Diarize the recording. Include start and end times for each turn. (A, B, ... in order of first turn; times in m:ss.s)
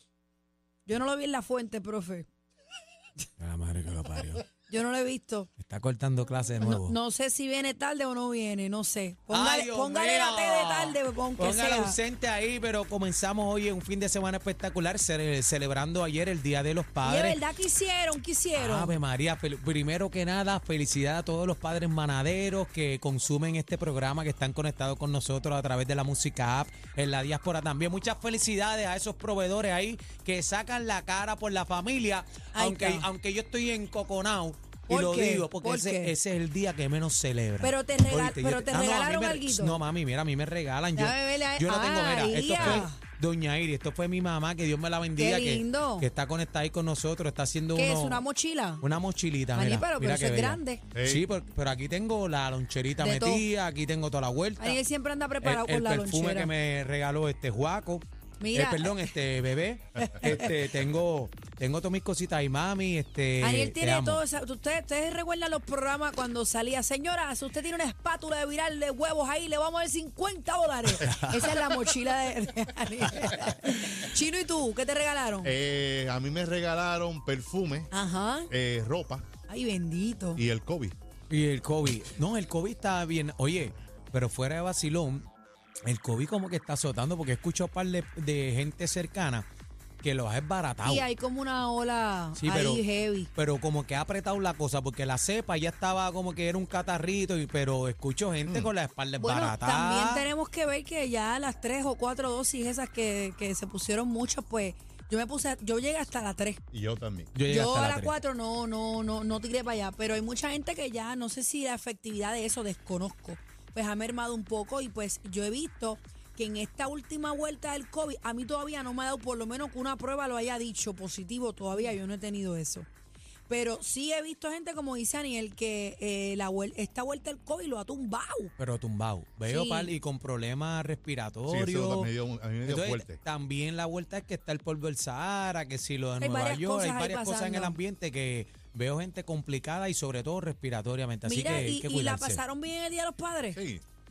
0:00.9-0:02.3 A
0:03.4-0:04.4 B
0:04.7-0:05.5 A
0:05.6-0:06.9 B
0:06.6-0:12.0 A
0:09.3-0:17.4 B
0:17.0-0:19.0 A
0:18.5-0:48.2 B
0:32.5-0:33.0 A
0:34.9-0:36.1 A
0:37.6-0:39.8 A
0:40.9-0:43.0 A
0:45.2-0:46.1 A
0:47.7-0:48.8 A
0:48.8-0:54.8 B
0:49.5-0:50.8 A
0:50.9-0:51.2 C
0:53.0-0:53.4 A
0:54.6-0:56.5 A
0:55.4-1:04.2 B
0:58.4-0:59.1 A
1:00.0-1:00.5 A
1:03.4-1:15.5 A
1:11.0-1:11.5 C
1:15.4-1:17.9 C
1:17.9-1:18.5 A
1:18.5-1:19.2 C
1:19.5-1:20.4 A
1:20.4-1:21.0 C
1:21.3-1:25.2 B
1:25.8-1:29.4 B
1:30.0-1:31.1 B
1:30.8-1:33.3 A
1:32.4-1:40.2 B
1:39.2-1:46.6 A
1:46.7-1:47.3 C
1:47.3-1:48.1 B
1:47.5-2:02.9 A
2:03.5-2:08.5 A
2:08.6-2:12.1 B
2:09.4-2:09.9 A
2:11.5-2:13.2 C
2:12.6-2:22.4 B
2:16.2-2:17.8 A
2:21.2-2:23.6 A
2:23.5-2:23.8 C